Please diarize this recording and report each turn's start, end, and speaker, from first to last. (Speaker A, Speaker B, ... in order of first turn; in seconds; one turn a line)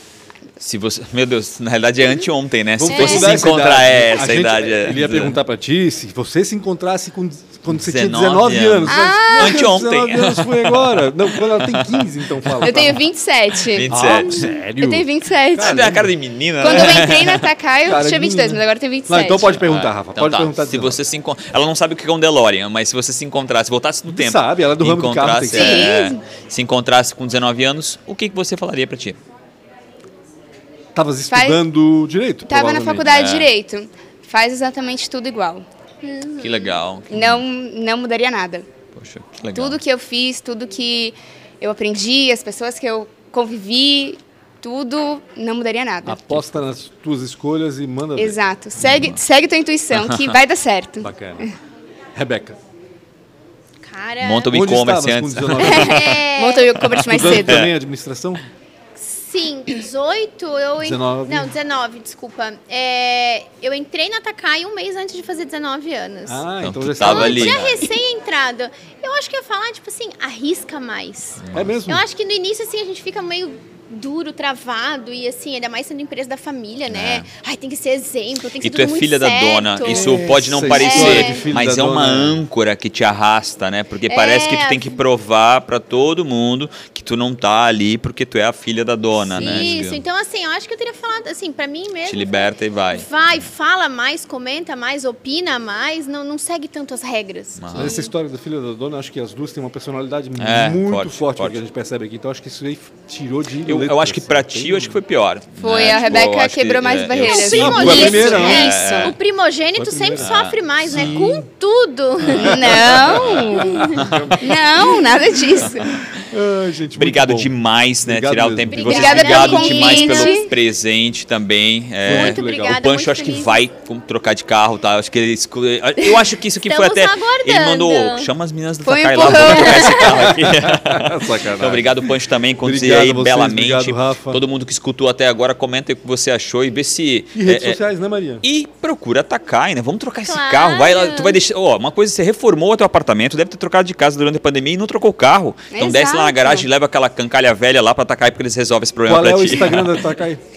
Speaker A: 0.6-5.4
Speaker B: 2.8-13.0
Speaker C: 2.9-3.4
Speaker A: 7.7-12.7
Speaker D: 8.9-9.8
Speaker D: 12.6-16.1
Speaker A: 13.6-14.5
Speaker B: 13.9-16.1
Speaker A: 15.6-17.5
Speaker D: 16.6-19.6
Speaker B: 17.8-21.0
Speaker A: 19.5-29.2
Speaker B: 24.1-25.9
Speaker D: 25.5-26.2
Speaker C: 25.6-25.9
Speaker B: 30.9-33.1
Speaker D: 31.3-31.6
Speaker D: 32.5-35.6
Speaker A: 33.1-33.5
Speaker C: 36.0-36.8
Speaker A: 36.4-37.4
Speaker D: 37.1-38.7
Speaker A: 38.9-39.8
Speaker D: 39.5-46.2
Speaker B: 46.0-48.4
Speaker D: 48.1-51.5
Speaker A: 48.8-49.2
Speaker A: 49.9-50.4
Speaker B: 51.0-51.5
Speaker B: 52.1-52.6
Speaker C: 53.8-54.5
Speaker A: 54.2-56.2
Speaker B: 54.5-56.1
Speaker D: 55.6-57.6
Speaker C: 55.8-56.7
Speaker A: 56.8-57.7
Speaker B: 56.9-58.4
Speaker C: 59.0-66.5
Speaker B: 60.8-61.5
Speaker B: 66.3-67.8
Speaker A: 66.6-67.9
Speaker C: 67.0-81.5
Speaker A: 71.4-71.7
Speaker B: 71.5-72.0
Speaker A: 76.9-77.3
Speaker A: 78.6-90.0
Speaker B: 79.8-82.4
Speaker C: 84.1-85.0
Speaker B: 89.3-89.8
Speaker C: 89.4-98.1
Speaker A: 92.0-93.3
Speaker A: 97.6-97.9
Speaker B: 97.7-105.0
Speaker A: 100.4-101.6
Speaker A: 103.6-109.2
Speaker D: 105.6-109.2
Speaker C: 107.2-112.8
Speaker B: 107.5-108.7
Speaker B: 109.8-111.5
Speaker A: 110.2-111.1
Speaker B: 112.3-114.9
Speaker A: 112.3-114.4
Speaker D: 112.3-116.0
Speaker C: 113.7-114.0
Speaker A: 115.7-115.9
Speaker B: 116.2-119.2
Speaker A: 117.0-137.8
Speaker C: 118.7-120.5
Speaker D: 118.8-120.5
Speaker B: 122.0-122.8
Speaker C: 122.1-123.6
Speaker C: 126.7-128.3
Speaker D: 128.8-130.3
Speaker B: 130.0-134.4
Speaker B: 137.3-138.4
Speaker A: 138.4-150.1
Speaker C: 140.3-141.4
Speaker D: 145.7-146.7
Speaker B: 149.1-150.4